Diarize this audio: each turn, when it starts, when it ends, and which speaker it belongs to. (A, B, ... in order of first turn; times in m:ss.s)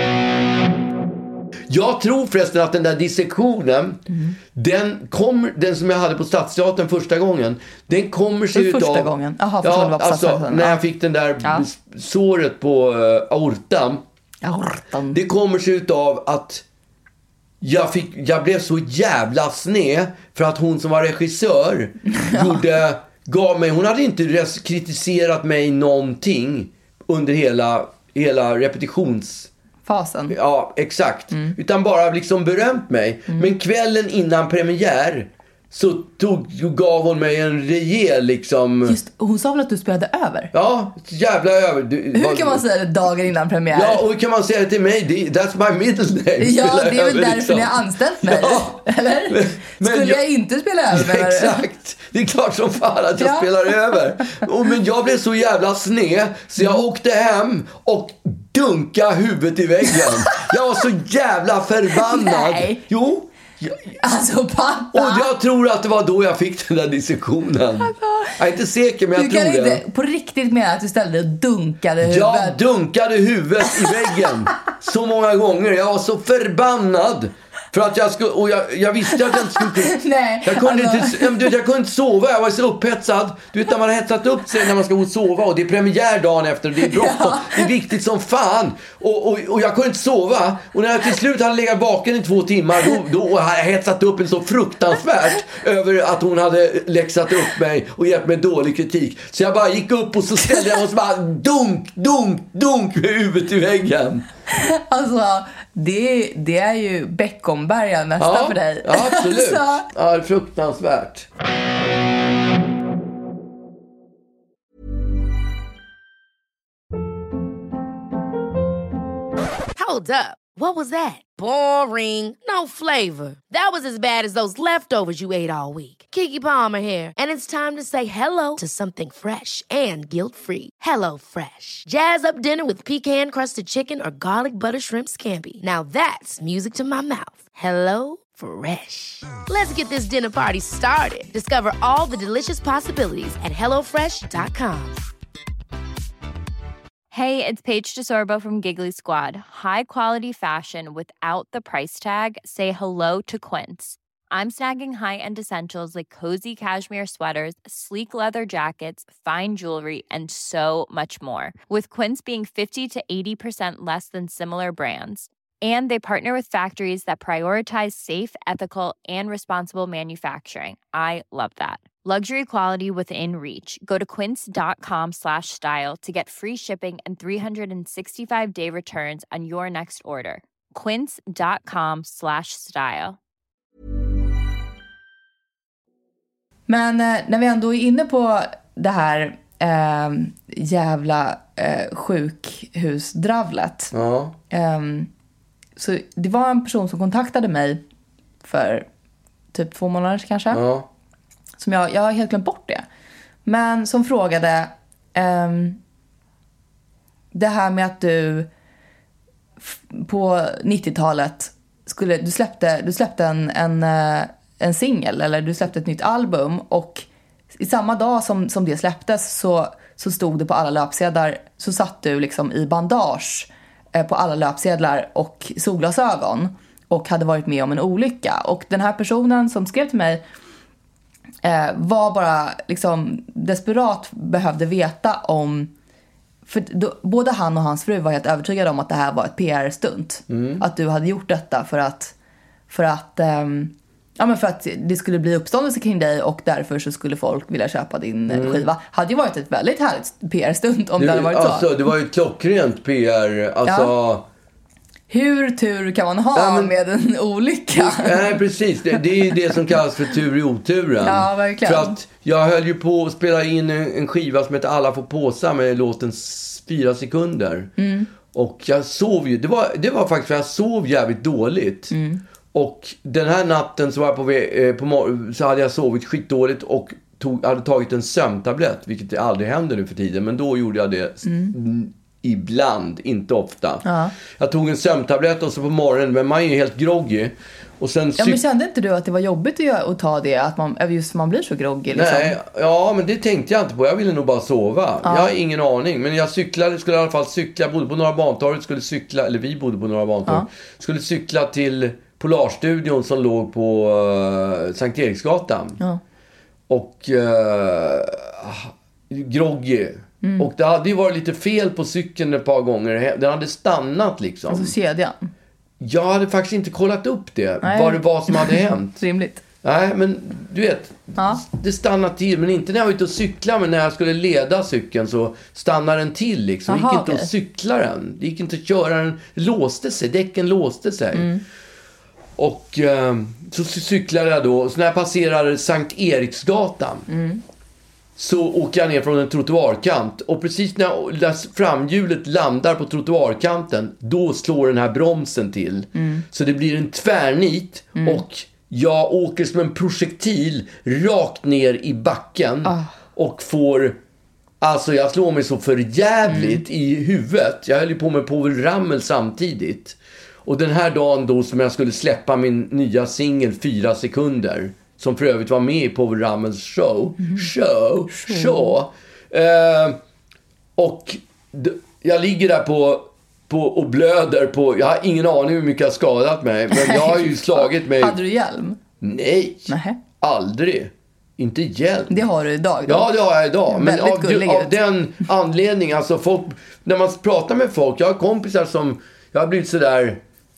0:01.7-0:09.1 A
0:04.1-0:04.4 B
0:08.5-0:10.8 B
0:09.6-0:14.0 A
0:14.4-0:15.2 B
0:15.1-0:16.6 A
0:17.6-0:29.5 A
0:22.2-0:22.6 B
0:29.8-0:30.3 B
0:30.3-0:39.0 A
0:38.8-0:40.5 B
0:40.5-0:42.6 A
0:42.1-0:44.0 B
0:43.7-0:50.2 A
0:46.4-0:51.6 B
0:50.9-1:03.9 A
0:53.2-0:53.5 B
1:01.9-1:02.8 B
1:04.0-1:05.3 B
1:04.9-1:09.8 A
1:07.8-1:08.3 B
1:09.1-1:12.6 B
1:12.0-1:44.2 A
1:19.6-1:21.4 B
1:26.8-1:27.7 B
1:44.5-1:49.8 B
1:48.2-1:51.3 A
1:59.7-2:25.0 C
2:27.1-3:03.2 D
3:06.7-3:13.9 B
3:13.9-3:14.3 A
3:14.5-3:15.1 B
3:15.8-3:17.8 B
3:18.4-3:18.8 B
3:19.5-3:20.6 B
3:20.5-3:20.8 A
3:21.6-3:22.8 B
3:23.4-3:25.8 B
3:27.3-3:28.5 B
3:29.6-3:37.0 B
3:37.6-3:50.2 B
3:51.4-3:55.7 B
3:56.4-4:02.1 B
4:00.3-4:00.6 A
4:02.7-4:11.7 B
4:08.3-4:08.6 A
4:11.0-4:14.2 A
4:13.6-4:13.9 B
4:15.1-4:18.2 B
4:16.3-4:16.7 A
4:17.7-4:27.7 A
4:21.0-4:21.9 B
4:27.8-4:28.1 B
4:28.3-4:31.9 A
4:31.9-4:32.2 B
4:32.5-4:43.8 A
4:41.2-4:41.5 B
4:43.8-4:44.1 B
4:44.4-4:48.4 A
4:48.2-4:52.3 B
4:51.9-5:05.8 A
4:55.0-4:55.3 B
5:06.7-5:14.7 A
5:10.2-5:10.5 B
5:14.5-5:15.3 B
5:15.8-5:19.0 A
5:17.6-5:19.4 B
5:19.6-5:31.3 A
5:21.2-5:21.4 B
5:26.7-5:27.3 B
5:31.1-5:31.4 B
5:32.4-5:37.1 A
5:37.1-5:37.4 B
5:38.2-5:54.0 A
5:46.0-5:46.2 B
5:48.0-5:48.2 B
5:52.6-5:52.9 B
5:54.6-6:10.0 A
5:56.3-5:56.6 B
6:08.1-6:08.7 B
6:10.8-6:18.2 A
6:16.7-6:18.8 B
6:19.0-6:22.2 A
6:19.7-6:20.0 B
6:22.1-6:23.1 B
6:22.8-6:30.2 A
6:23.7-6:24.7 B